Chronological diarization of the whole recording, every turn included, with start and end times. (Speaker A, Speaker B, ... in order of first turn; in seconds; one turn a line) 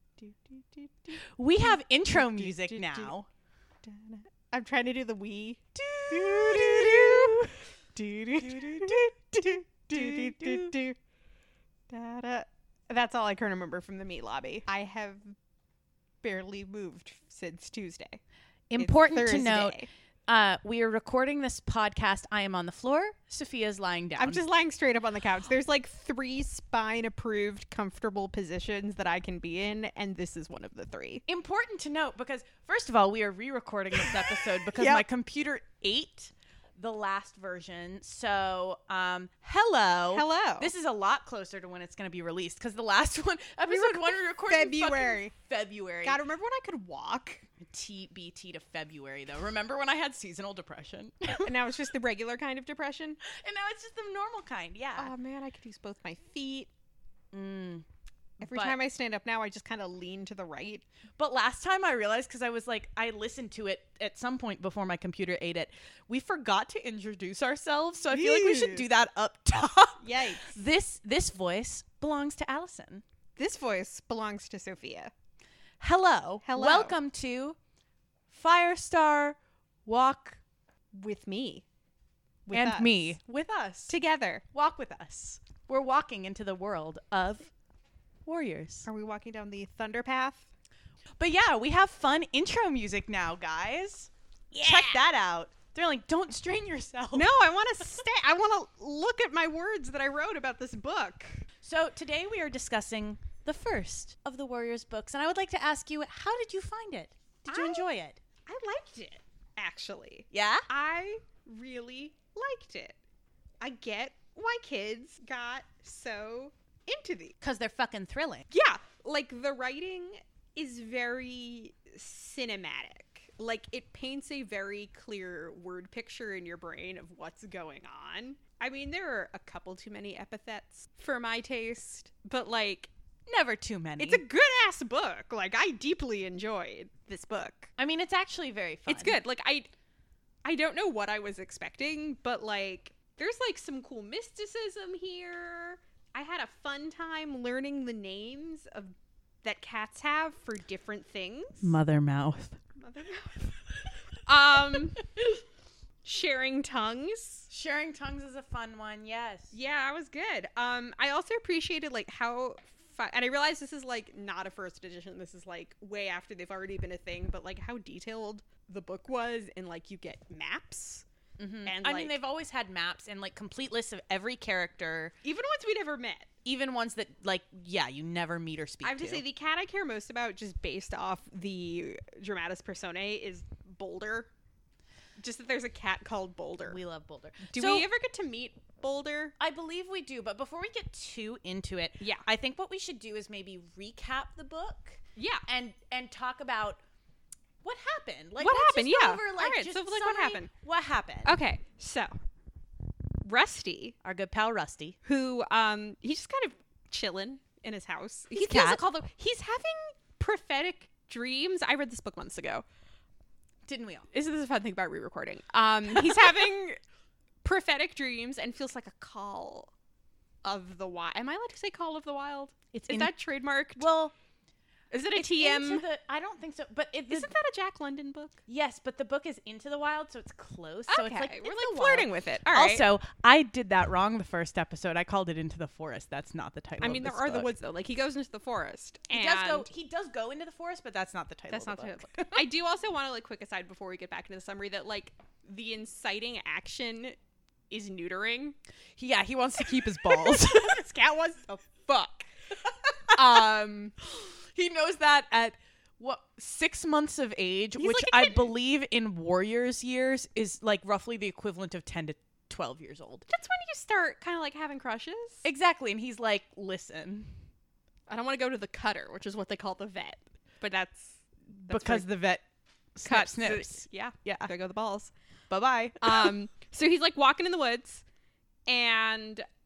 Speaker A: 0.2-3.1
Speaker B: 1.4-3.3
Speaker A: 3.8-11.0
Speaker B: 5.8-7.5
Speaker B: 8.2-10.8
Speaker A: 11.9-15.3
Speaker A: 16.2-18.2
Speaker B: 18.7-24.5
Speaker A: 18.8-19.9
Speaker A: 24.2-31.2
Speaker B: 31.3-46.2
Speaker A: 33.9-35.0
Speaker A: 40.1-40.7
Speaker A: 43.7-45.3
Speaker A: 46.0-47.5
Speaker B: 47.6-51.5
Speaker A: 51.4-53.2
Speaker B: 53.2-55.1
Speaker A: 55.0-56.7
Speaker B: 57.3-57.9
Speaker A: 58.4-60.9
Speaker B: 58.4-58.8
Speaker B: 61.2-73.0
Speaker A: 68.1-68.8
Speaker A: 70.0-70.5
Speaker A: 73.4-75.1
Speaker B: 75.8-77.6
Speaker A: 76.4-76.9
Speaker B: 78.3-80.4
Speaker A: 80.9-81.7
Speaker A: 82.5-83.1
Speaker B: 82.5-83.9
Speaker A: 83.9-84.4
Speaker B: 84.5-87.5
Speaker B: 88.2-88.9
Speaker A: 88.8-90.5
Speaker B: 91.2-97.3
Speaker A: 94.5-95.0
Speaker A: 97.1-101.4
Speaker B: 101.6-108.2
Speaker A: 107.5-107.9
Speaker A: 108.5-113.0
Speaker B: 110.3-110.7
Speaker A: 113.6-117.4
Speaker B: 117.4-118.5
Speaker A: 118.5-132.9
Speaker B: 133.3-134.2
Speaker A: 134.0-137.7
Speaker B: 137.8-139.2
Speaker A: 138.9-139.7
Speaker A: 140.4-151.8
Speaker B: 151.6-152.6
Speaker A: 152.8-153.6
Speaker A: 154.2-155.2
Speaker A: 156.1-157.5
Speaker B: 157.5-159.6
Speaker A: 159.5-171.1
Speaker B: 171.4-175.2
Speaker A: 171.6-172.2
Speaker A: 175.2-176.3
Speaker B: 176.4-179.2
Speaker A: 178.8-184.3
Speaker A: 185.2-186.8
Speaker B: 186.7-187.9
Speaker A: 187.4-189.3
Speaker B: 189.4-196.8
Speaker A: 192.0-192.2
Speaker A: 195.2-195.5
Speaker B: 197.6-201.4
Speaker A: 198.4-200.5
Speaker A: 201.2-202.1
Speaker A: 203.2-203.9
Speaker B: 204.0-205.0
Speaker A: 205.0-212.6
Speaker B: 208.3-208.8
Speaker B: 213.7-214.1
Speaker A: 214.1-216.8
Speaker B: 215.9-216.5
Speaker A: 217.4-219.7
Speaker A: 220.4-223.9
Speaker B: 222.7-223.1
Speaker B: 223.8-224.1
Speaker A: 224.9-225.8
Speaker B: 225.2-227.3
Speaker A: 227.1-228.4
Speaker B: 228.5-237.5
Speaker A: 230.9-232.9
Speaker A: 236.8-239.7
Speaker B: 239.1-242.4
Speaker A: 241.5-247.2
Speaker A: 247.7-248.6
Speaker B: 249.0-250.8
Speaker A: 250.0-252.3
Speaker A: 253.1-253.9
Speaker B: 253.1-253.4
Speaker B: 254.0-263.2
Speaker A: 257.8-258.5
Speaker A: 263.3-265.4
Speaker B: 265.4-267.4
Speaker A: 268.1-272.1
Speaker B: 271.7-272.4
Speaker B: 272.9-274.5
Speaker A: 273.1-275.1
Speaker B: 275.5-276.4
Speaker A: 276.0-278.0
Speaker A: 278.7-279.4